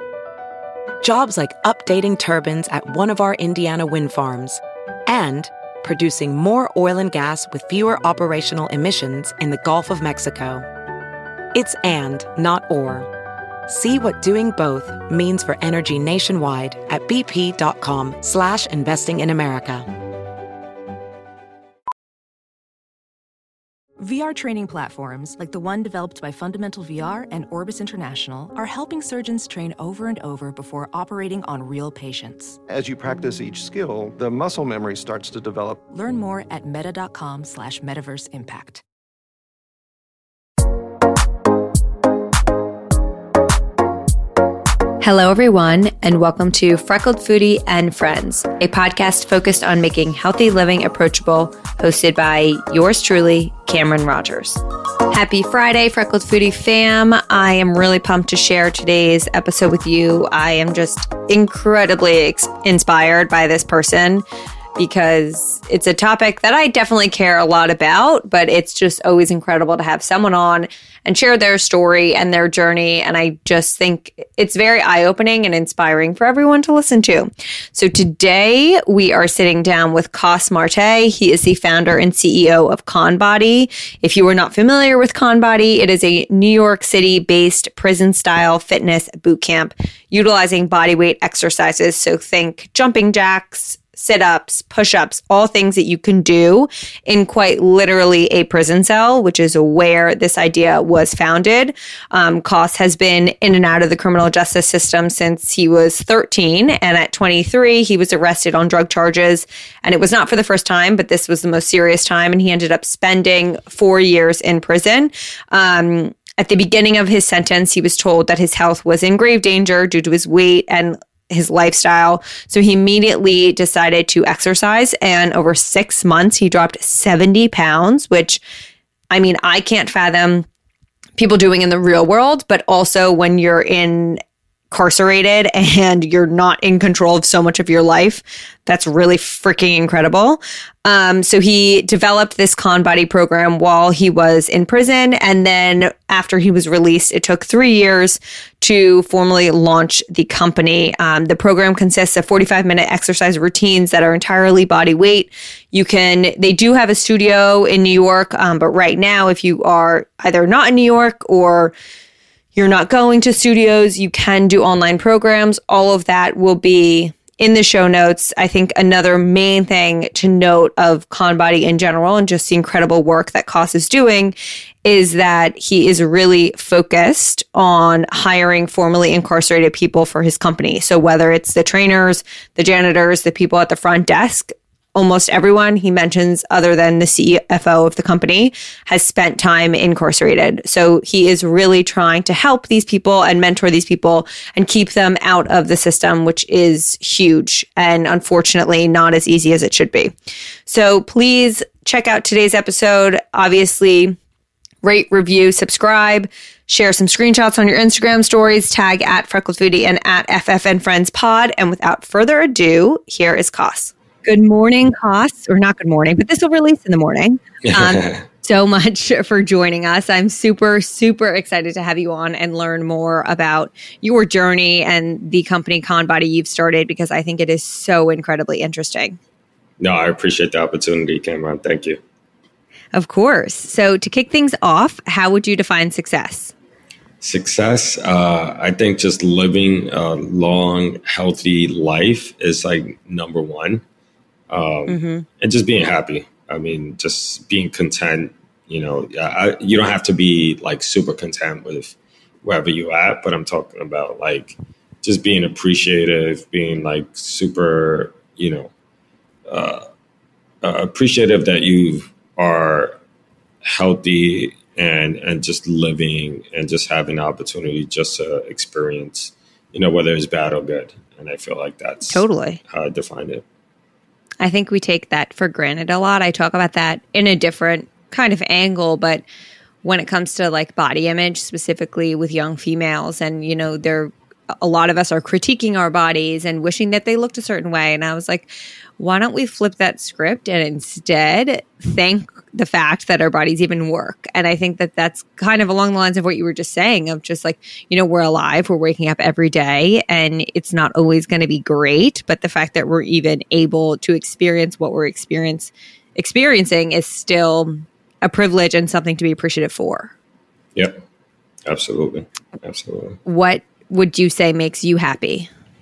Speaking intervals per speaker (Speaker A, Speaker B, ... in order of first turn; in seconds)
Speaker A: 1.0-10.7, 11.5-13.1, 13.7-19.9
Speaker B: 24.0-32.6, 35.9-38.8
Speaker C: 32.7-35.8
Speaker D: 45.0-64.2, 64.8-128.4, 129.1-130.4, 131.2-161.7, 162.5-200.1, 200.7-204.2, 204.8-229.2, 232.9-236.5, 244.9-245.2, 272.1-272.6, 274.4-279.2, 279.8-310.1, 313.2-315.5
Speaker E: 217.6-218.2, 229.8-232.0, 237.2-243.8, 244.5-258.7, 259.5-259.9, 260.6-263.0, 263.6-273.4, 310.7-311.0, 311.6-313.2